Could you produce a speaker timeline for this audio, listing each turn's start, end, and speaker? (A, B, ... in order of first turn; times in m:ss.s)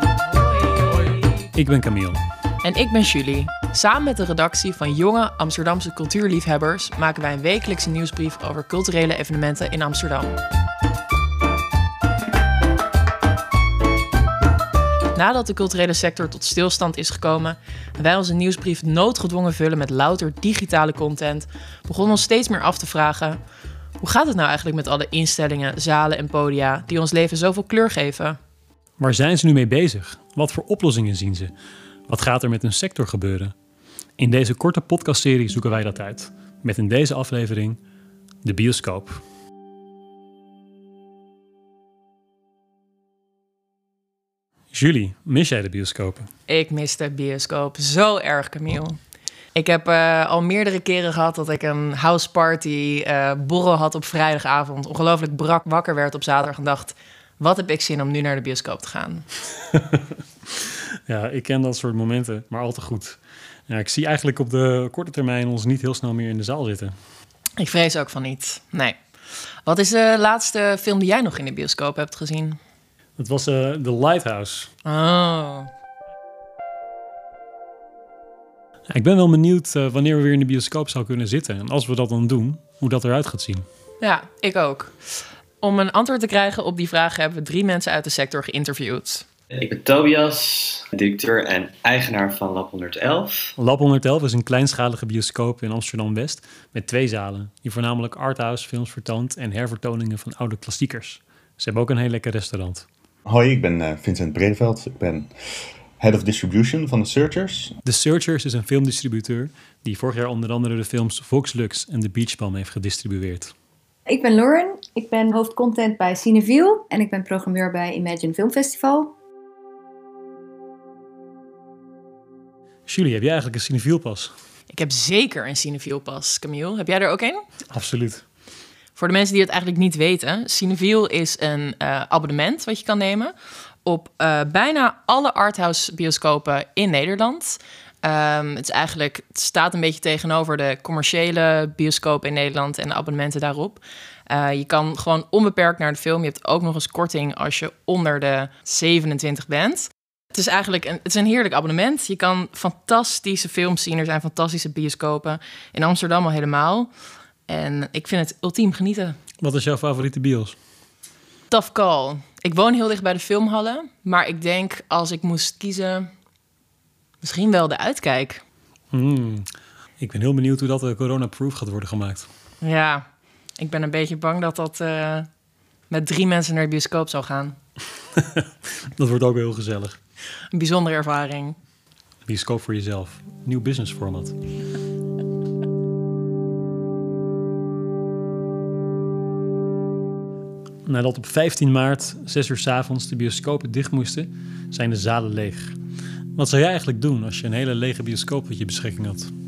0:01.5-0:02.2 A
0:02.6-0:10.4 B
0:15.1-0:23.4 B
0:24.0-0:28.4 B
0:29.0-0:31.5 A
0:32.1-0:33.5 A
0:34.2-0:37.8 A
0:38.4-0:39.2 A
0:44.7-0:46.3 A
0:46.5-0:49.0 B
0:49.5-0:59.2 B
1:01.1-1:06.9 A
1:07.6-1:09.0 B
1:09.6-1:12.6 B
1:13.2-1:14.7 A
1:14.8-1:15.7 B
1:18.9-1:23.6 A
1:24.0-1:29.2 B
1:29.5-1:33.5 C
1:33.6-1:42.8 A
1:43.2-1:45.3 D
1:46.0-1:47.7 D
1:47.8-1:53.5 A
1:54.1-1:59.1 E
2:02.9-2:04.3 A
2:04.7-2:07.4 B
2:07.7-2:08.2 A
2:09.0-2:13.3 B
2:13.8-2:36.9 B
2:37.5-2:39.2 B
2:39.4-2:40.6 A
2:41.5-2:46.1 B
2:47.2-2:48.4 B
2:48.9-2:52.3 A
2:52.6-2:53.1 B
2:53.6-2:55.3 B
2:55.9-2:57.6 B
2:58.2-3:00.0 A
3:00.5-3:01.6 B
3:02.2-3:04.3 A
3:10.8-3:15.7 A
3:16.3-3:19.3 A